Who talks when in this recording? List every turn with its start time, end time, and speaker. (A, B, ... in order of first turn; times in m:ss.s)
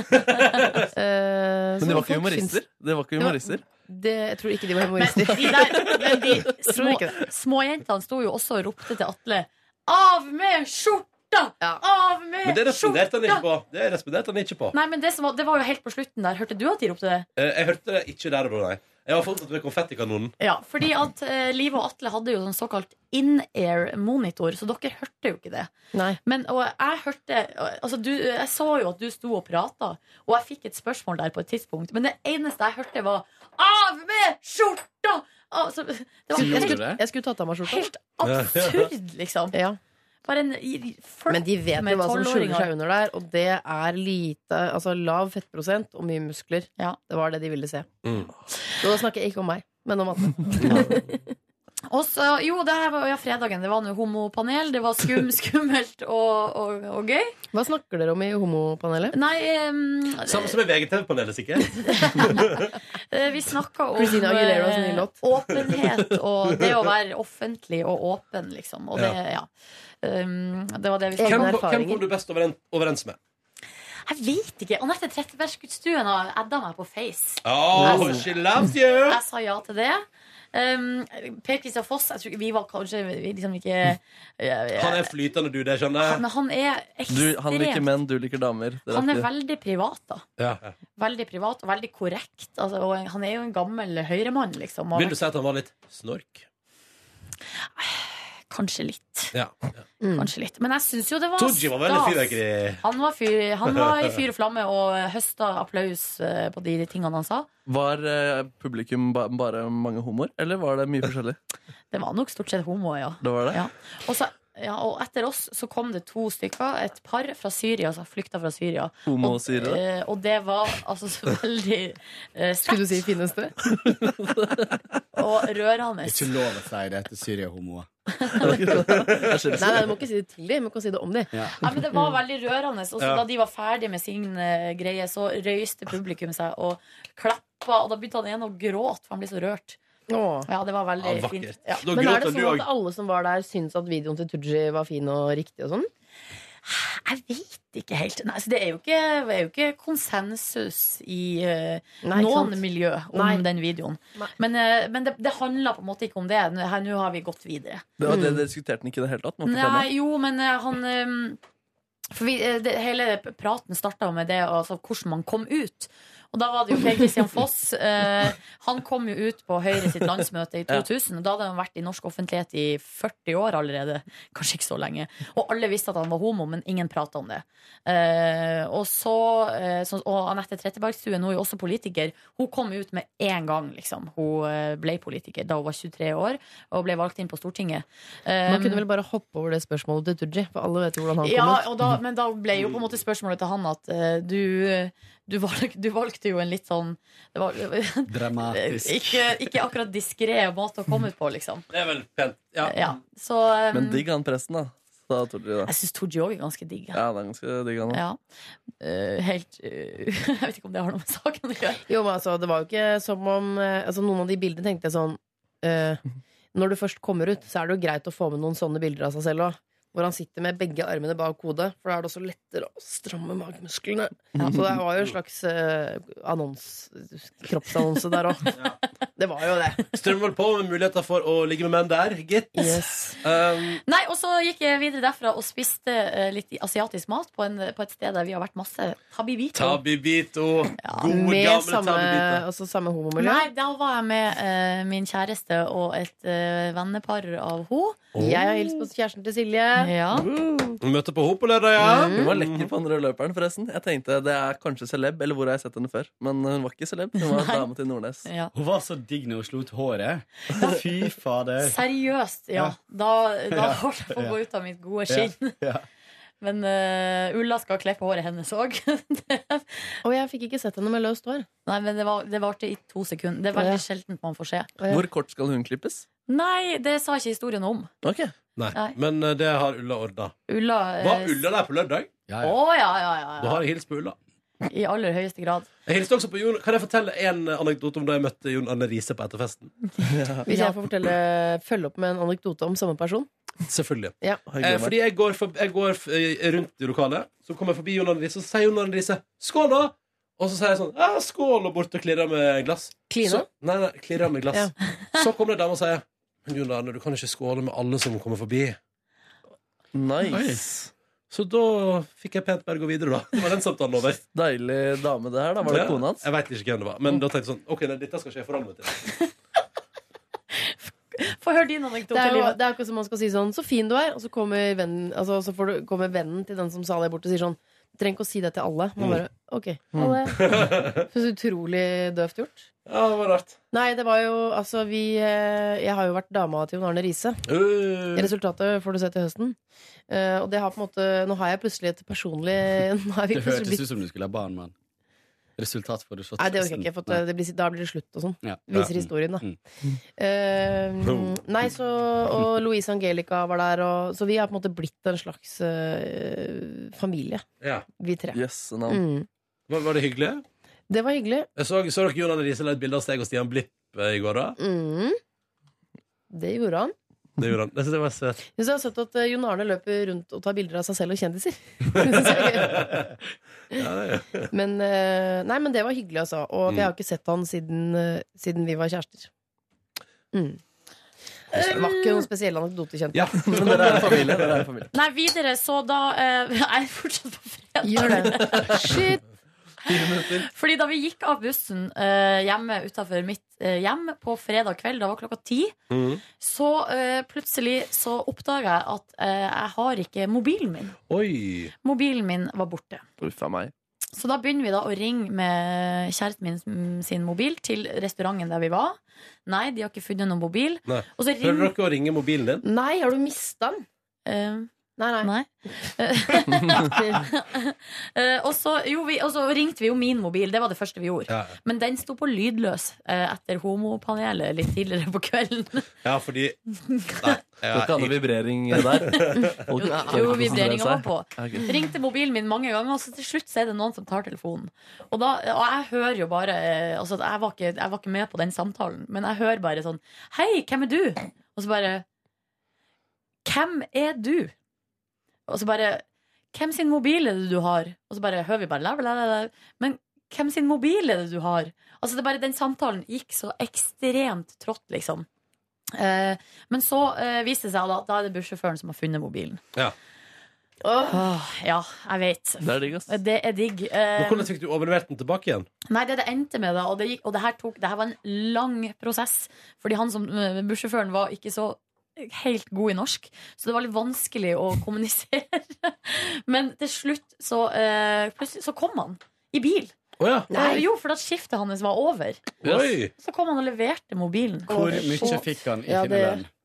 0:00.9-0:02.6 A
0:01.8-0:03.6 B
0:03.2-0:07.2 A
0:05.0-0:13.4 C
0:12.4-0:14.8 D
0:14.7-0:17.3 C
0:17.4-0:20.3 D
0:20.4-0:36.9 C
0:25.9-0:26.2 A
0:36.3-0:37.9 A
0:36.3-0:37.0 E
0:37.6-0:39.6 C
0:38.2-0:38.9 D
0:39.5-0:39.8 A
0:40.2-0:42.7 C
0:41.3-0:47.9 A
0:48.0-0:48.3 D
0:48.8-0:51.3 A
0:51.9-0:57.3 C
0:57.5-0:59.1 A
0:59.1-1:00.6 C
1:00.2-1:02.6 D
1:01.8-1:09.5 C
1:04.0-1:05.2 A
1:10.0-1:11.6 C
1:11.2-1:12.0 A
1:11.2-1:13.2 D
1:14.0-1:18.3 C
1:17.4-1:19.2 D
1:19.0-1:25.1 C
1:24.8-1:26.2 D
1:26.0-1:27.9 C
1:27.1-1:29.3 B
1:28.9-1:30.2 C
1:30.4-1:30.7 D
1:31.0-1:35.1 C
1:34.9-1:36.4 D
1:37.6-1:39.3 C
1:40.0-1:40.3 A
1:40.2-1:47.5 C
1:41.4-1:42.8 D
1:43.6-1:44.1 D
1:47.6-1:51.4 B
1:51.9-2:02.9 C
1:53.2-1:53.6 B
1:59.0-1:59.8 B
2:02.6-2:03.6 A
2:03.7-2:04.8 B
2:05.2-2:06.3 C
2:06.0-2:07.9 E
2:08.4-2:09.9 B
2:08.8-2:09.3 D
2:09.6-2:11.3 A
2:11.6-2:19.8 C
2:13.0-2:13.2 D
2:20.1-2:20.5 A
2:20.5-2:21.9 C
2:21.0-2:22.7 D
2:21.9-2:25.9 A
2:26.6-2:37.9 C
2:32.0-2:33.4 A
2:38.0-2:39.9 B
2:38.0-2:38.4 A
2:39.4-2:41.4 C
2:42.1-3:08.8 C
3:08.5-3:11.6 A
3:11.2-3:21.7 C
3:12.6-3:12.8 D
3:18.1-3:19.5 E
3:21.7-3:22.8 D
3:22.6-3:24.0 C
3:23.7-3:25.7 B
3:25.6-3:27.0 C
3:26.9-3:28.0 B
3:27.9-3:28.2 C
3:28.8-3:31.8 C
3:31.9-3:36.0 A
3:36.5-3:48.5 A
3:44.4-3:44.6 B
3:49.2-3:49.9 A
3:49.9-3:53.8 D
3:52.5-3:53.2 A
3:53.8-3:59.8 C
3:59.5-4:02.4 D
4:00.8-4:01.1 C
4:01.0-4:03.4 A
4:03.2-4:08.1 C
4:08.1-4:08.4 D
4:08.2-4:10.0 A
4:09.8-4:10.2 C
4:10.2-4:12.7 D
4:11.8-4:12.3 A
4:12.1-4:18.3 B
4:17.2-4:17.7 C
4:18.2-4:18.5 C
4:18.5-4:21.8 E
4:20.5-4:20.8 C
4:21.6-4:25.6 C
4:23.5-4:24.4 E
4:25.1-4:25.8 E
4:26.4-4:29.9 C
4:30.0-4:31.4 A
4:31.6-4:34.7 C
4:33.5-4:33.8 A
4:34.8-4:35.0 A
4:34.9-4:36.0 B
4:36.3-4:37.9 C
4:38.0-4:38.3 B
4:38.6-4:40.3 D
4:40.5-4:41.4 C
4:41.0-4:42.1 D
4:42.3-4:42.6 E
4:42.4-4:43.6 C
4:43.4-4:44.2 D
4:44.7-4:45.7 C
4:45.8-4:49.7 D
4:50.0-4:50.4 B
4:50.4-4:53.3 A
4:50.5-4:50.7 C
4:53.7-5:08.8 D
4:54.5-4:54.9 B
5:03.1-5:03.5 A
5:09.9-5:10.9 B
5:10.3-5:10.6 E
5:11.3-5:14.2 D
5:14.3-5:16.3 B
5:15.6-5:19.0 D
5:20.6-5:22.6 C
5:22.1-5:32.7 A
5:29.9-5:30.2 B
5:30.2-5:31.0 D
5:32.8-5:33.6 D
5:33.7-5:37.4 A
5:37.5-5:38.3 D
5:38.1-5:39.6 A
5:40.1-5:43.8 A
5:43.3-5:44.7 E
5:45.6-5:47.2 E
5:46.4-5:49.4 A
5:48.4-5:49.6 E
5:50.2-5:57.4 A
5:51.0-5:51.4 D
5:57.6-5:57.8 D
5:58.0-5:59.3 A
5:58.3-5:59.0 B
5:59.7-6:00.4 D
6:00.9-6:01.5 A
6:01.6-6:04.6 D
6:04.6-6:05.2 A
6:06.3-6:06.9 A
6:07.4-6:08.4 D
6:08.5-6:12.9 A
6:11.9-6:13.0 D
6:13.7-6:14.5 D
6:14.5-6:19.3 A
6:20.3-6:20.6 A
6:21.5-6:22.2 C
6:21.5-6:23.8 A
6:23.1-6:24.6 D
6:23.4-6:24.9 B
6:24.9-6:28.9 C
6:27.8-6:29.2 A
6:28.4-6:28.9 B
6:29.9-6:30.4 B
6:30.4-6:35.7 C
6:35.9-6:36.2 D
6:36.4-6:41.0 C
6:41.1-6:41.7 D
6:41.8-6:43.0 C
6:43.2-6:43.7 B
6:44.1-6:51.7 C
6:50.8-6:52.6 D
6:52.6-6:53.8 A
6:54.2-6:54.7 C
6:55.0-6:55.3 A
6:55.2-7:05.9 C
7:01.3-7:01.5 D
7:06.0-7:06.6 D
7:06.9-7:07.4 C
7:07.1-7:08.2 D
7:07.7-7:11.7 B
7:08.7-7:09.6 D
7:09.8-7:22.0 C
7:09.8-7:10.3 A
7:23.4-7:24.5 C
7:25.5-7:35.2 C
7:35.9-7:39.6 C
7:40.8-7:41.3 A
7:41.1-7:44.5 C
7:42.6-7:43.2 B
7:44.2-7:45.7 D
7:45.8-7:59.9 C
8:00.2-8:00.5 D
8:00.5-8:02.5 C
8:00.5-8:00.8 A
8:02.6-8:03.1 D
8:03.1-8:05.5 C
8:04.7-8:06.5 E
8:04.8-8:06.4 A